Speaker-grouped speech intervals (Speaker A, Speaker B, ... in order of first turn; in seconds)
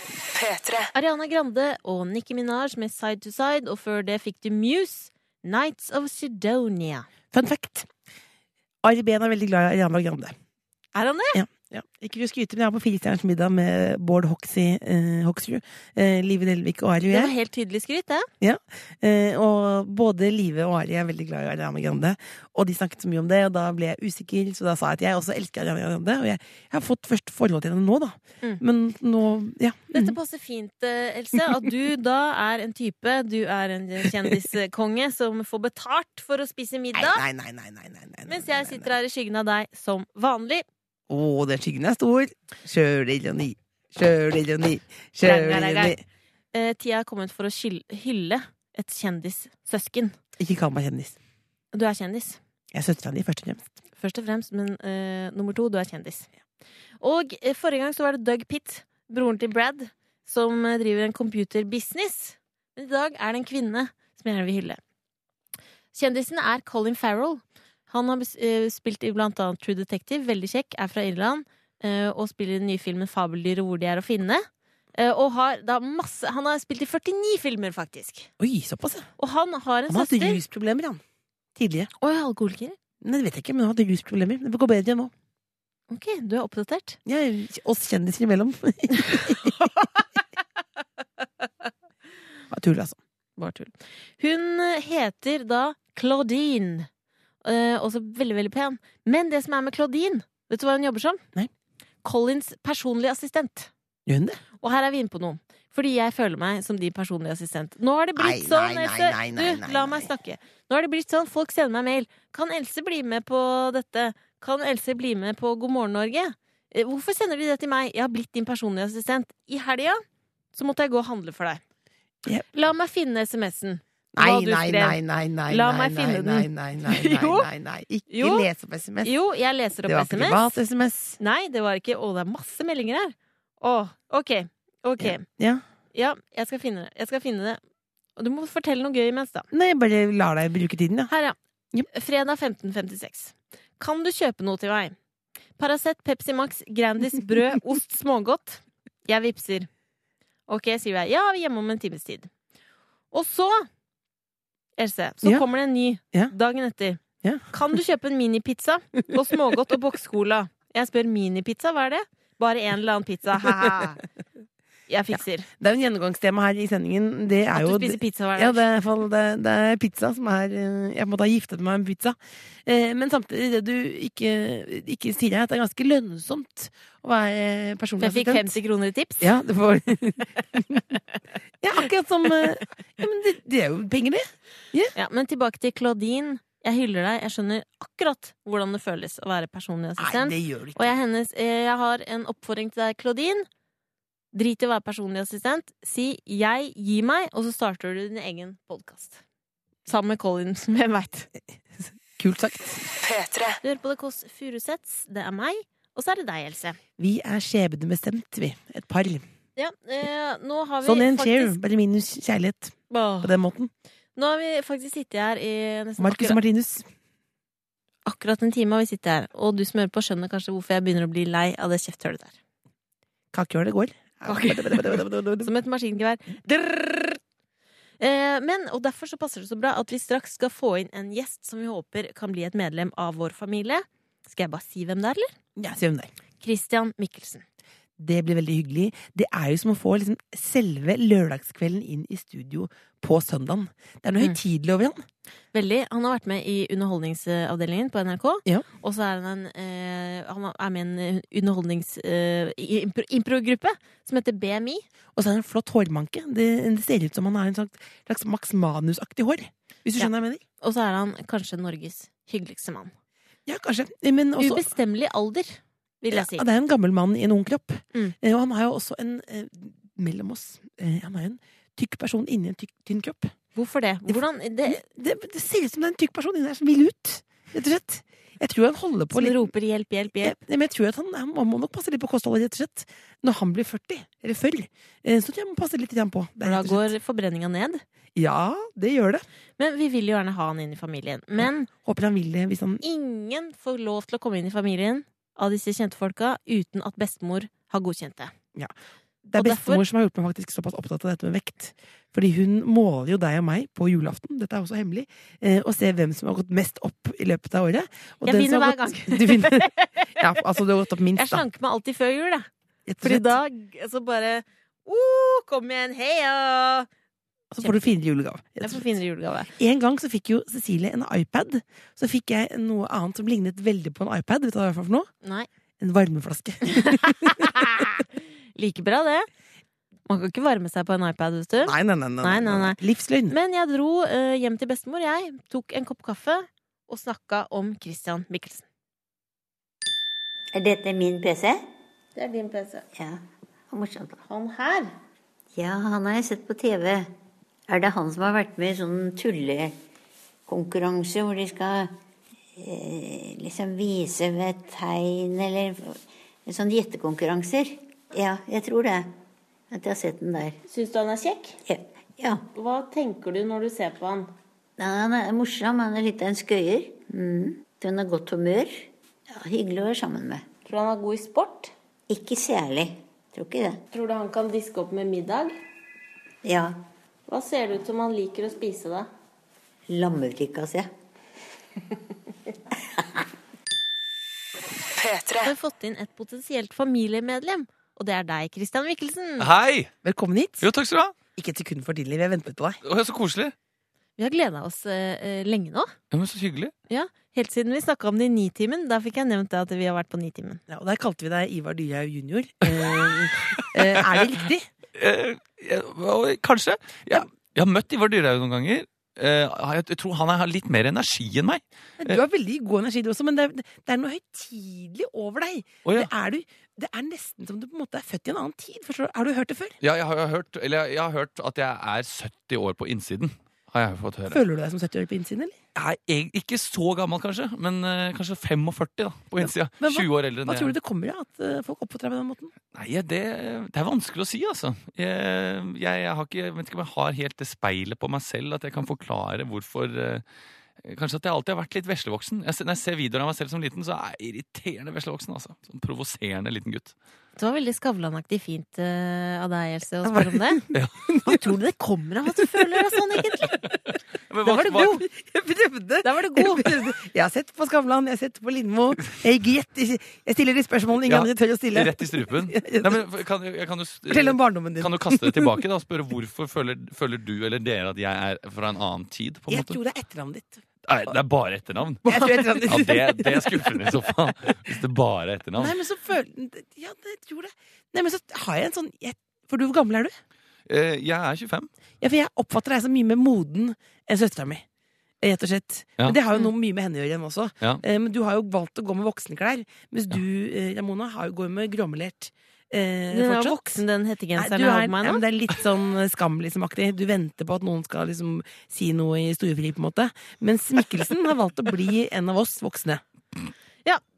Speaker A: 0.9-7.0, 10.9-11.4, 17.1-18.3, 29.9-37.2, 38.3-40.6, 45.2-46.0, 46.5-50.1, 51.7-52.4, 54.0-56.3, 57.0-64.8, 65.9-78.3, 79.2-80.4, 82.0-82.8, 85.9-87.0, 89.0-90.0, 93.4-96.9, 97.4-101.2, 102.0-103.7, 104.6-120.0, 120.5-121.6, 122.5-127.5, 128.1-128.5, 129.0-130.4, 131.2-135.2, 135.9-137.6, 138.2-139.5, 141.1-141.3, 141.9-144.9, 145.6-149.7, 150.5-152.3, 153.1-153.7, 154.8-164.0, 164.9-165.5, 167.5-168.6, 178.0-179.3, 184.9-193.4, 194.3-199.2, 199.8-201.3, 203.6-206.8, 209.6-211.6, 212.9-213.3, 214.1-216.4, 218.1-222.3, 224.2-227.2, 228.0-235.3, 236.4-237.4, 245.5-254.9, 260.6-262.9, 264.4-266.4, 273.5-274.8, 279.1-280.4, 286.4-287.8, 289.6-291.7, 292.8-298.3, 299.3-299.8, 308.2-310.4, 311.1-312.5, 313.0-316.9, 318.6-319.5, 325.2-325.5, 326.7-327.9, 328.5-329.3, 330.1-338.6, 342.1-342.8, 344.3-344.9, 360.7-361.6, 362.5-364.3, 370.6-371.7, 373.9-375.5, 377.3-379.1, 385.3-389.5, 394.2-395.9, 396.9-400.6, 447.4-450.6, 451.2-453.7, 454.4-455.0, 456.0-456.7, 493.1-495.2
Speaker B: 7.3-7.9, 8.8-10.3, 11.3-17.3, 18.4-30.1, 36.9-38.9, 41.1-46.0, 50.4-51.2, 52.7-53.7, 78.4-79.1, 79.9-81.0, 81.5-81.9, 83.0-85.1, 87.0-89.6, 92.5-93.0, 104.1-104.4, 108.2-110.1, 124.1-129.1, 129.8-131.2, 135.0-135.6, 139.5-141.1, 157.2-157.5, 165.1-178.6, 179.2-181.0, 181.6-184.9, 190.0-190.9, 202.2-202.8, 207.0-209.2, 210.8-213.7, 216.0-216.8, 223.3-225.5, 235.6-236.1, 238.0-245.0, 255.1-260.4, 263.4-264.7, 266.1-273.3, 274.1-279.5, 280.2-286.9, 288.1-289.2, 291.4-292.8, 299.2-311.4, 312.9-313.4, 317.5-318.9, 319.6-325.1, 325.8-327.8, 331.6-333.4, 390.0-390.7, 391.4-392.8, 400.7-404.7, 412.0-419.8, 424.3-425.6, 429.4-432.5, 450.0-451.5, 452.4-452.8, 454.4-463.0, 464.1-465.6, 469.5-471.1, 472.0-474.0, 475.6-480.1, 482.0-484.6, 485.2-493.8, 494.4-503.0
Speaker C: 340.5-341.6, 342.9-344.2, 345.5-347.1, 347.7-349.7, 350.5-351.9, 352.6-359.1, 359.7-360.6, 361.6-362.4, 364.8-370.4, 372.1-373.8, 376.4-376.8, 379.9-380.9, 382.8-383.2
Speaker D: 389.4-389.9, 390.6-391.1, 392.8-393.5, 396.1-396.7, 402.6-404.1, 404.9-412.2, 415.8-416.1, 419.8-424.4, 425.7-430.7, 432.7-440.2, 440.8-446.9, 450.7-451.0, 454.3-455.0, 461.0-469.8, 470.8-475.7, 480.6-481.7